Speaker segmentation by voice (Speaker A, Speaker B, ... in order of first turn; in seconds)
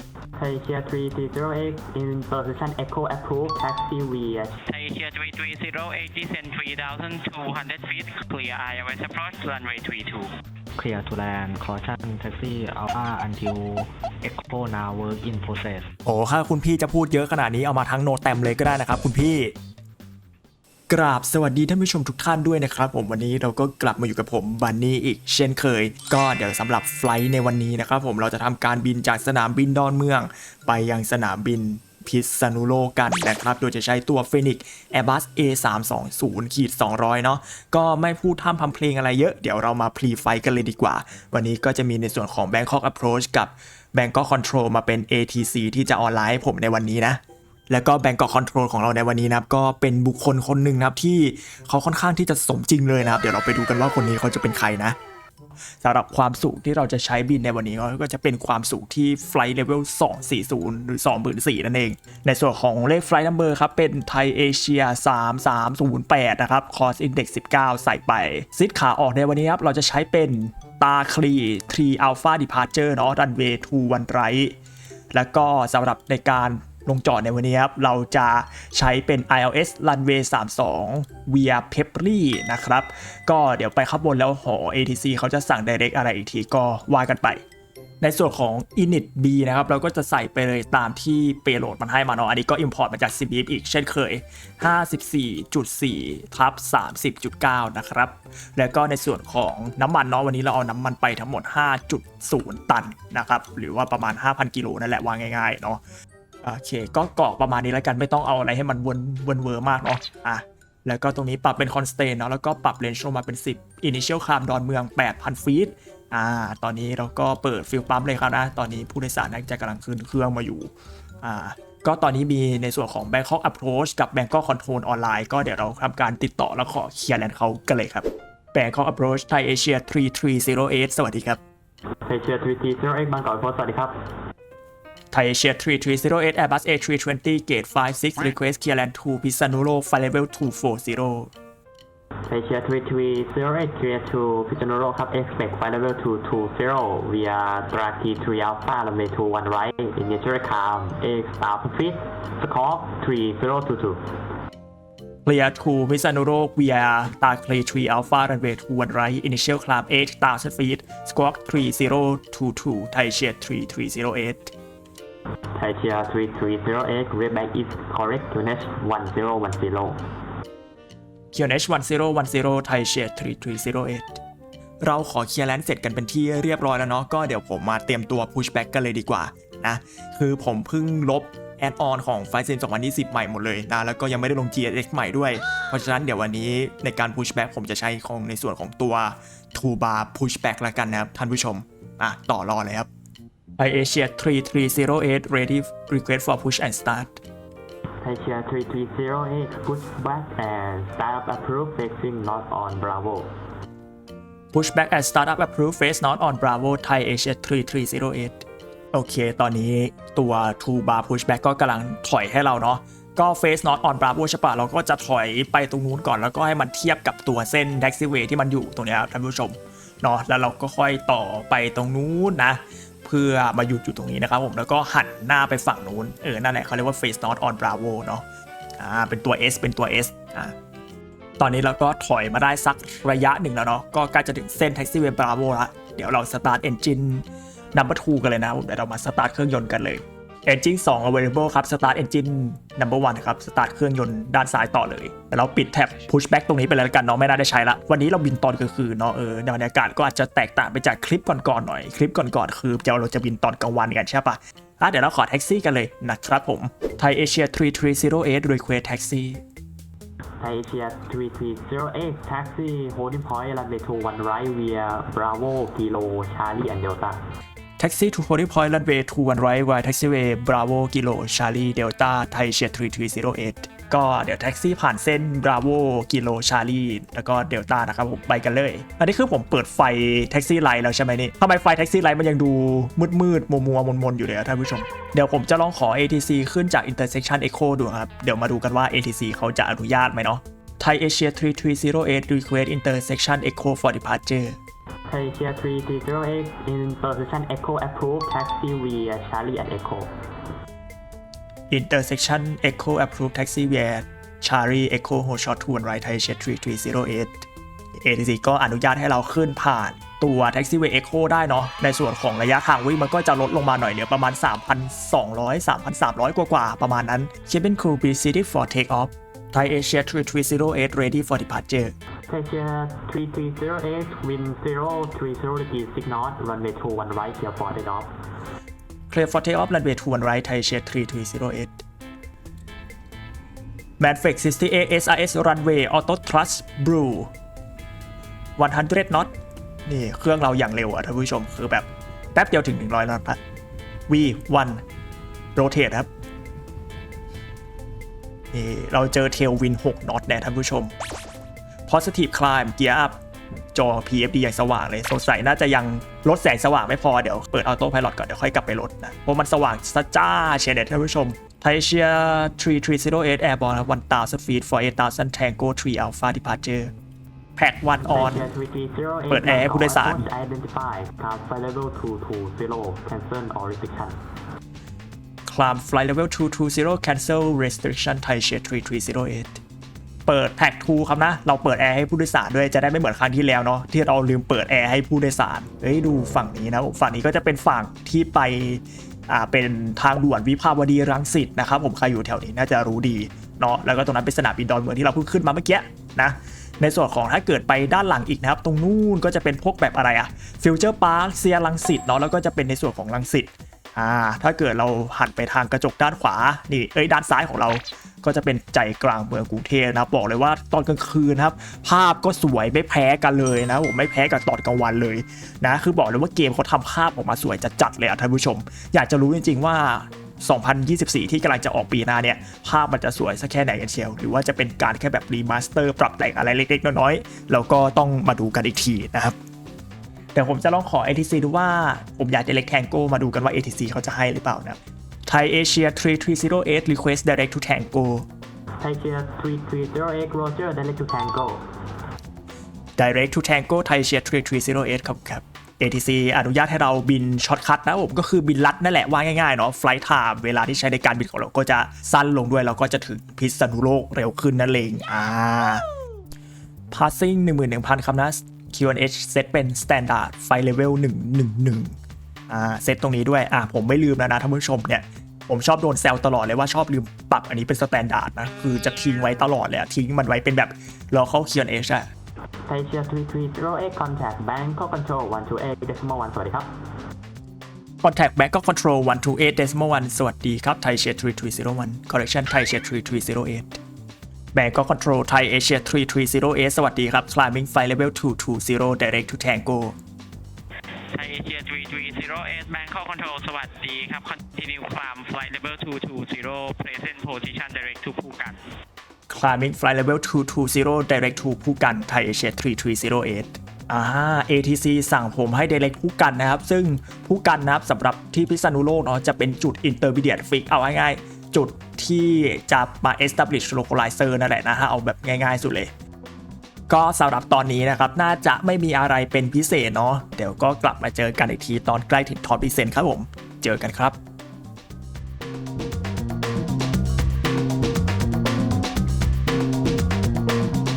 Speaker A: 0.4-4.6, 132.1-133.9, 142.3-154.0, 165.6-170.0, 198.0-203.3, 260.4-267.2, 295.1-300.1, 322.3-328.1, 368.0-374.2, 438.8-441.6, 472.7-476.7
Speaker B: 4.7-10.3, 491.1-498.6
Speaker C: 10.8-15.9
Speaker D: 16.1-19.6, 20.9-55.0, 55.8-74.6, 75.1-87.4, 88.0-105.8, 106.4-120.7, 121.2-131.4, 135.1-141.3, 155.3-164.5, 171.3-174.2, 174.8-192.9, 193.6-197.2, 204.5-228.2, 228.8-230.6, 231.4-259.4, 267.8-294.6, 301.7-321.9, 329.1-331.8, 334.0-337.3, 338.6-339.3, 339.9-343.4, 344.1-344.8, 345.6-346.1, 348.5-350.9, 351.9-353.2, 353.7-366.9, 367.6-368.5, 369.3-370.3, 375.5-379.6, 380.3-429.4, 430.4-438.3, 443.0-455.8, 456.9-462.0, 462.5-472.1, 478.0-483.8, 484.5-490.0, 499.3-515.9, 516.9-524.2